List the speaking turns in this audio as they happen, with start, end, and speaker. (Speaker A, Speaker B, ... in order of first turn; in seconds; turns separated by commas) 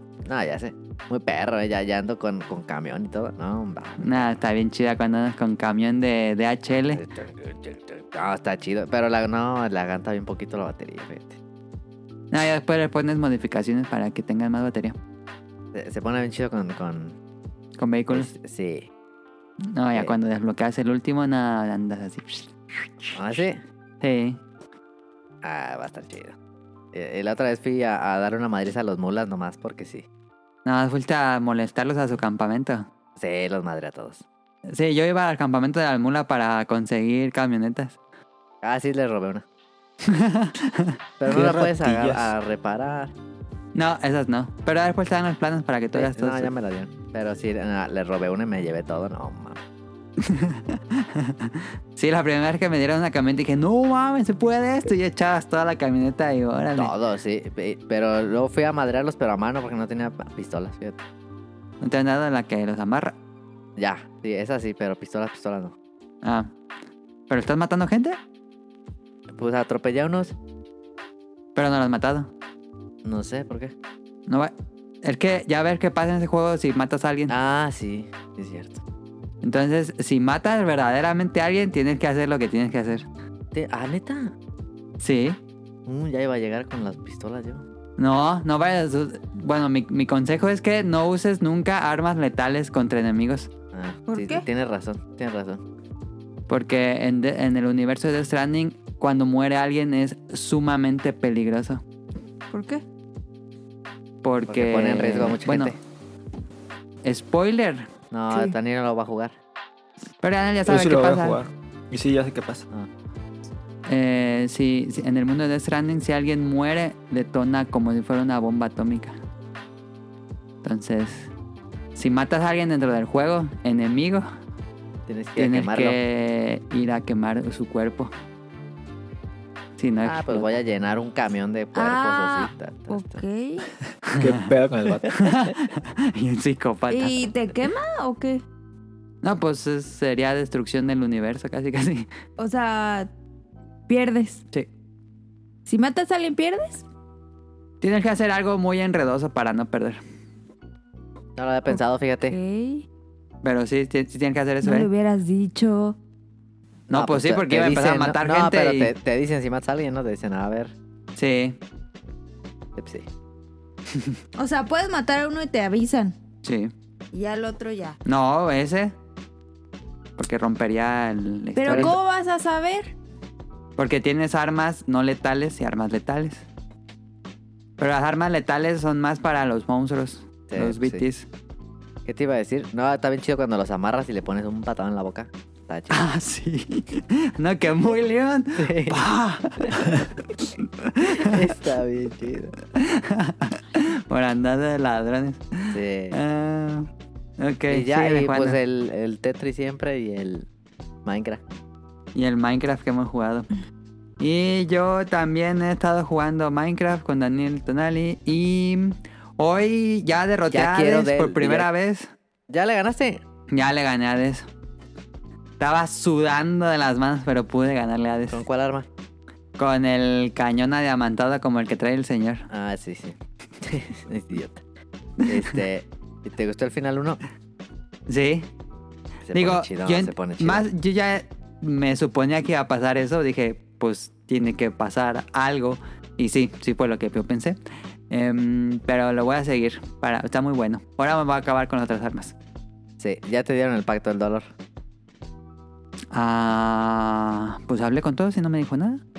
Speaker A: 0.2-4.3, Speaker B: 4.0-7.0, Speaker A: 6.9-11.4, Speaker B: 12.3-15.0, Speaker A: 15.7-17.1, Speaker B: 17.8-18.3, Speaker A: 18.1-18.9, Speaker B: 19.6-22.5, Speaker A: 23.1-23.6, Speaker B: 24.0-24.4, Speaker A: 25.4-26.4, Speaker A: 26.9-30.1, Speaker B: 30.6-32.9, Speaker A: 33.2-34.2, Speaker B: 34.7-38.0, Speaker A: 38.6-39.4, Speaker B: 40.1-40.9, Speaker A: 41.2-43.1, Speaker C: 41.3-42.3, Speaker B: 43.7-46.5, Speaker A: 45.9-49.6, Speaker B: 50.2-56.9, Speaker A: 56.8-61.0, Speaker B: 61.8-63.1, Speaker A: 63.8-65.7, Speaker B: 66.2-66.5, Speaker B: 67.3-68.2, Speaker A: 69.3-70.3, Speaker B: 71.5-72.3, Speaker A: 73.0-73.7, Speaker B: 74.3-74.5, Speaker B: 75.0-77.3, Speaker A: 77.3-78.8, Speaker B: 79.4-83.0, Speaker A: 83.5-84.3, Speaker B: 85.0-85.4, Speaker A: 85.8-87.6, Speaker B: 88.0-93.5, Speaker A: 93.7-95.6, Speaker D: 94.1-94.5, Speaker B: 96.5-101.8, Speaker D: 102.5-102.8, Speaker B: 104.2-105.8, Speaker A: 104.5-105.8, Speaker B: 107.0-107.9, Speaker A: 108.1-109.3, Speaker B: 110.2-111.4, Speaker C: 110.7-112.6, Speaker B: 113.8-119.2, Speaker B: 120.6-121.3, Speaker B: 122.0-124.2, Speaker A: 125.1-126.0, Speaker B: 125.4-128.1, Speaker B: 129.8-130.5, Speaker A: 130.0-133.2, Speaker D: 131.7-133.7, Speaker B: 134.1-134.5, Speaker C: 134.2-135.1, Speaker B: 135.1-137.2, Speaker D: 136.9-138.4, Speaker B: 139.2-142.1, Speaker D: 142.4-143.1, Speaker D: 143.9-144.4, Speaker D: 145.7-146.8, Speaker B: 147.8-150.0, Speaker A: 151.4-152.4, Speaker D: 152.3-152.8, Speaker B: 153.4-154.9, Speaker D: 154.6-156.0, Speaker B: 156.9-158.9, Speaker A: 156.9-160.7, Speaker B: 161.2-161.6, Speaker A: 162.8-163.1, Speaker D: 164.4-166.2, Speaker B: 166.4-166.7, Speaker D: 167.1-168.0, Speaker B: 168.0-168.9, Speaker B: 170.2-172.0, Speaker D: 171.5-172.9, Speaker A: 171.7-171.9, Speaker B: 173.8-176.4, Speaker B: 177.8-181.3, Speaker A: 180.5-181.0, Speaker A: 182.1-186.0, Speaker B: 185.9-191.4, Speaker A: 188.6-189.1, Speaker A: 191.1-192.5, Speaker B: 192.7-196.9, Speaker A: 195.7-196.2, Speaker B: 197.4-198.6, Speaker A: 197.7-200.4, Speaker A: 201.0-201.4, Speaker B: 202.1-203.5, Speaker B: 204.2-212.1, Speaker A: 210.5-211.7, Speaker A: 212.5-213.2, Speaker B: 213.5-214.5, Speaker B: 215.6-218.4, Speaker A: 218.3-218.9, Speaker B: 219.6-222.4, Speaker A: 222.5-224.6, Speaker A: 225.2-227.2, Speaker B: 228.1-228.5, Speaker A: 229.2-230.7, Speaker B: 229.3-237.6, Speaker B: 238.1-242.3, Speaker A: 243.0-244.5, Speaker B: 246.1-249.0